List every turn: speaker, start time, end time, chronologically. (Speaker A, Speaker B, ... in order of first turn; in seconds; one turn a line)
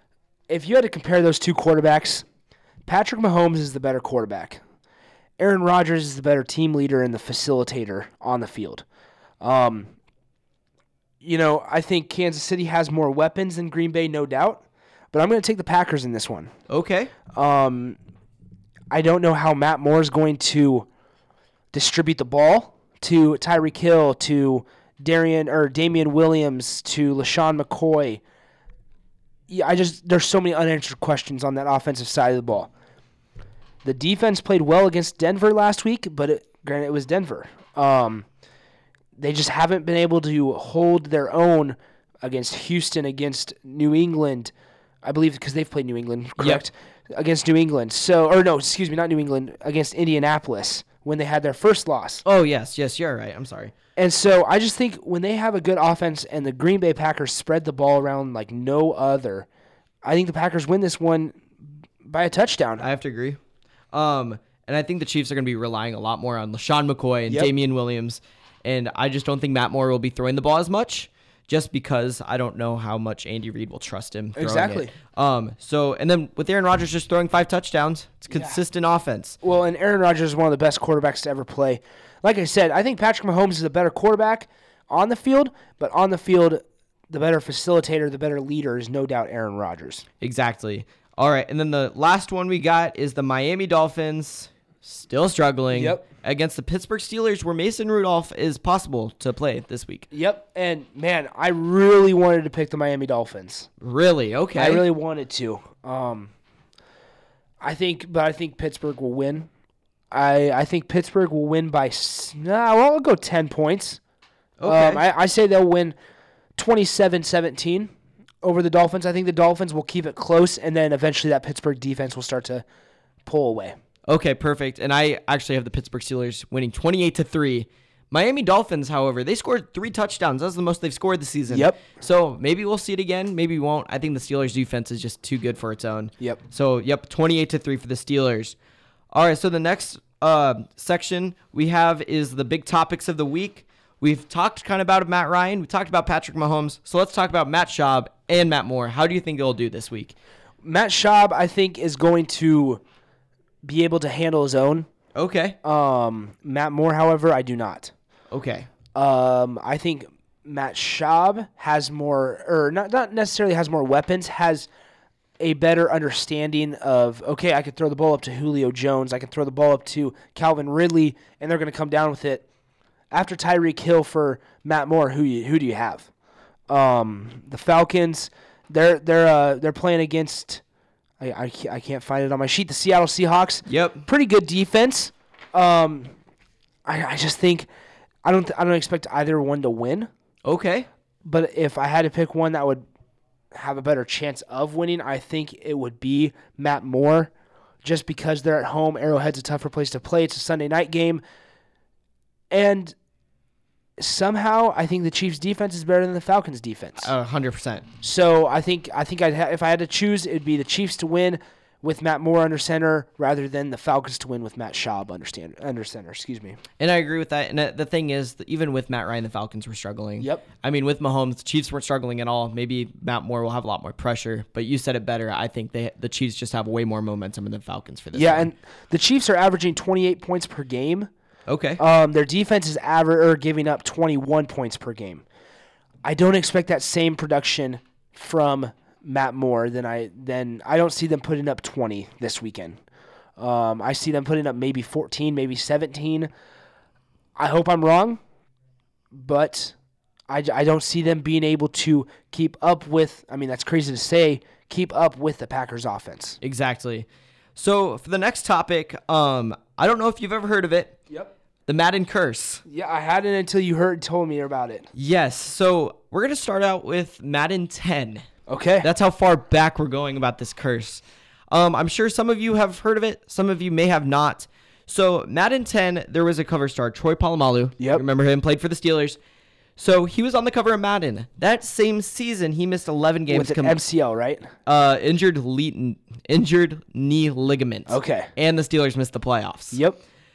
Speaker A: 0.5-2.2
Speaker A: 2.9-4.6
Speaker A: 5.4-8.8
Speaker A: 9.4-9.9
Speaker A: 11.2-16.5
Speaker B: 16.7-17.1
Speaker A: 17.3-18.0
Speaker A: 18.9-20.9
Speaker A: 21.7-28.2
Speaker A: 29.5-32.7
Speaker A: 33.8-38.3
Speaker A: 39.2-44.5
Speaker A: 45.0-52.2
Speaker B: 52.2-53.8
Speaker A: 54.0-59.5
Speaker A: 60.0-61.5
Speaker A: 62.0-62.9
Speaker B: 62.8-63.4
Speaker B: 63.9-79.4
Speaker A: 74.4-74.9
Speaker A: 78.3-78.6
Speaker A: 79.4-90.0
Speaker B: 90.2-100.1
Speaker A: 95.7-96.0
Speaker A: 100.1-103.7
Speaker B: 103.8-104.9
Speaker A: 104.5-106.3
Speaker A: 107.6-109.5
Speaker A: 110.1-114.0
Speaker B: 114.6-115.0
Speaker A: 114.6-116.0
Speaker A: 116.6-117.9
Speaker A: 118.4-122.6
Speaker A: 123.3-123.8
Speaker B: 124.1-138.6
Speaker A: 131.5-131.8
Speaker B: 139.1-150.2
Speaker A: 150.6-152.8
Speaker A: 153.6-154.9
Speaker B: 155.2-155.6
Speaker A: 155.6-157.9
Speaker B: 158.3-158.7
Speaker A: 158.9-164.7
Speaker A: 165.4-172.4
Speaker A: 173.1-176.1
Speaker A: 176.7-180.6
Speaker A: 181.2-186.1
Speaker B: 183.7-184.1
Speaker A: 186.9-187.7
Speaker A: 188.2-190.1
Speaker B: 190.4-190.9
Speaker A: 191.2-192.8
Speaker A: 193.5-197.3
Speaker A: 197.8-201.2
Speaker A: 202.5-202.9
Speaker A: 204.0-207.1
Speaker B: 207.0-207.9
Speaker A: 208.0-216.6
Speaker B: 216.8-228.5
Speaker A: 220.2-220.4
Speaker A: 228.1-231.1
Speaker B: 231.5-231.8
Speaker A: 231.8-235.2
Speaker A: 236.0-242.8
Speaker A: 243.4-246.3
Speaker A: 247.4-248.2
Speaker A: 249.1-249.8
Speaker A: 250.3-256.4
Speaker B: 256.4-261.0
Speaker B: 261.7-262.6
Speaker A: 262.7-264.9
Speaker B: 264.9-268.3
Speaker A: 268.5-268.9
Speaker B: 268.8-279.2
Speaker B: 279.8-283.8
Speaker A: 283.3-284.5
Speaker B: 284.7-289.8
Speaker A: 287.9-288.3
Speaker A: 289.7-290.0